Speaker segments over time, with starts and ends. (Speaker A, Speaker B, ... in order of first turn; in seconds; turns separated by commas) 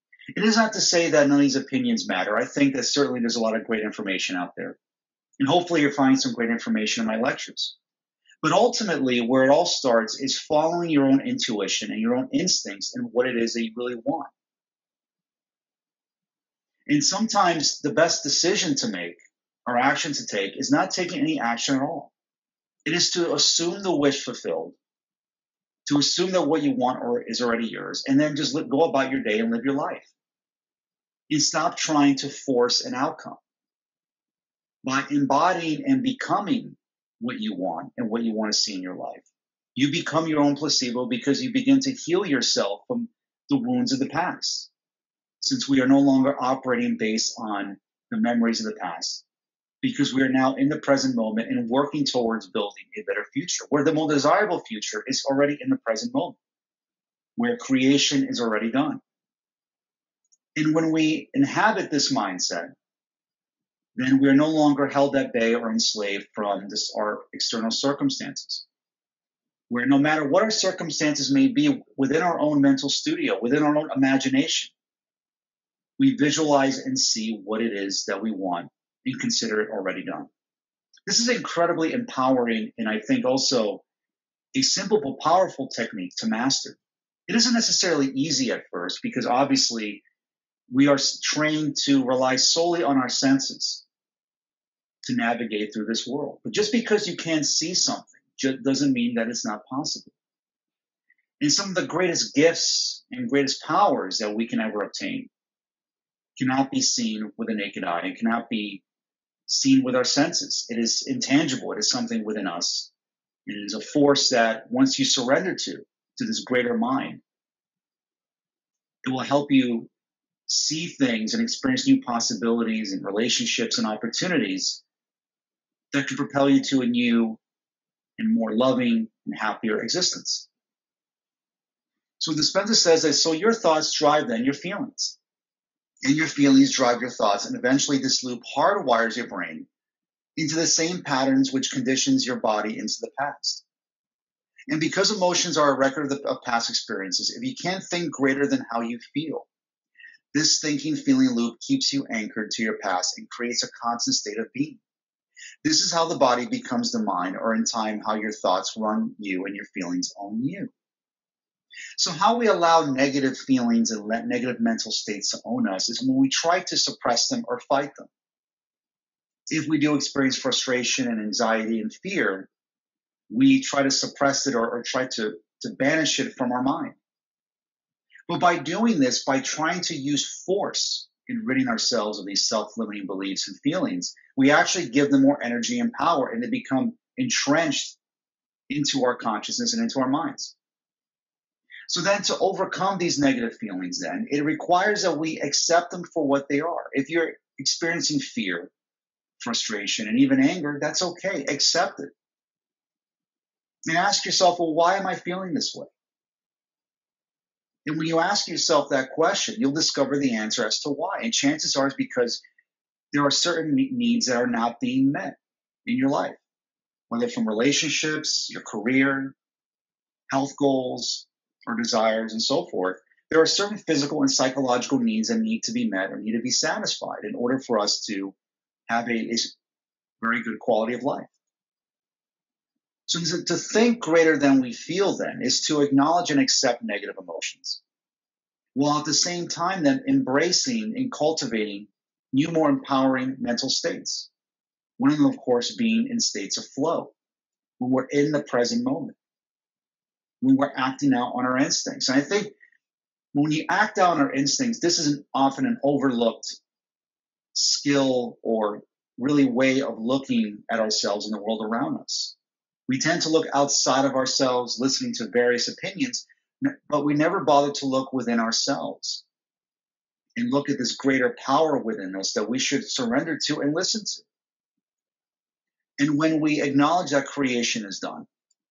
Speaker A: 0.3-4.8, Speaker A: 5.4-7.8, Speaker A: 8.4-14.3, Speaker A: 16.9-22.1, Speaker A: 22.9-24.8, Speaker A: 25.9-30.1, Speaker A: 31.3-33.4, Speaker A: 34.8-39.2, Speaker A: 39.8-44.7, Speaker A: 45.4-49.2, Speaker A: 49.8-56.4, Speaker A: 57.4-59.0, Speaker A: 60.5-62.7, Speaker A: 64.0-68.7, Speaker A: 69.7-74.7, Speaker A: 76.0-80.3, Speaker A: 81.1-83.8, Speaker A: 84.5-90.0, Speaker A: 90.7-93.8, Speaker A: 95.0-100.1, Speaker A: 101.4-105.3, Speaker A: 106.4-108.8, Speaker A: 109.5-112.9, Speaker A: 113.5-117.2, Speaker A: 119.0-119.9, Speaker A: 120.5-124.8, Speaker A: 125.9-127.4, Speaker A: 128.2-130.5, Speaker A: 132.2-135.2, Speaker A: 136.0-139.7, Speaker A: 140.4-143.6, Speaker A: 144.7-149.5, Speaker A: 150.3-154.8, Speaker A: 155.6-160.7, Speaker A: 162.0-168.1, Speaker A: 169.5-172.5, Speaker A: 173.3-177.0, Speaker A: 178.3-188.0, Speaker A: 188.7-190.5, Speaker A: 191.9-198.7, Speaker A: 199.4-202.1, Speaker A: 203.9-205.9, Speaker A: 207.9-212.4, Speaker A: 213.1-216.4, Speaker A: 217.1-219.4, Speaker A: 220.3-228.3, Speaker A: 228.9-229.6, Speaker A: 230.2-231.3, Speaker A: 233.1-237.8, Speaker A: 238.8-244.3, Speaker A: 245.0-247.1, Speaker A: 247.8-249.2, Speaker A: 250.4-252.5, Speaker A: 253.3-256.6, Speaker A: 257.5-262.3, Speaker A: 262.9-269.2, Speaker A: 270.4-274.3, Speaker A: 276.0-278.3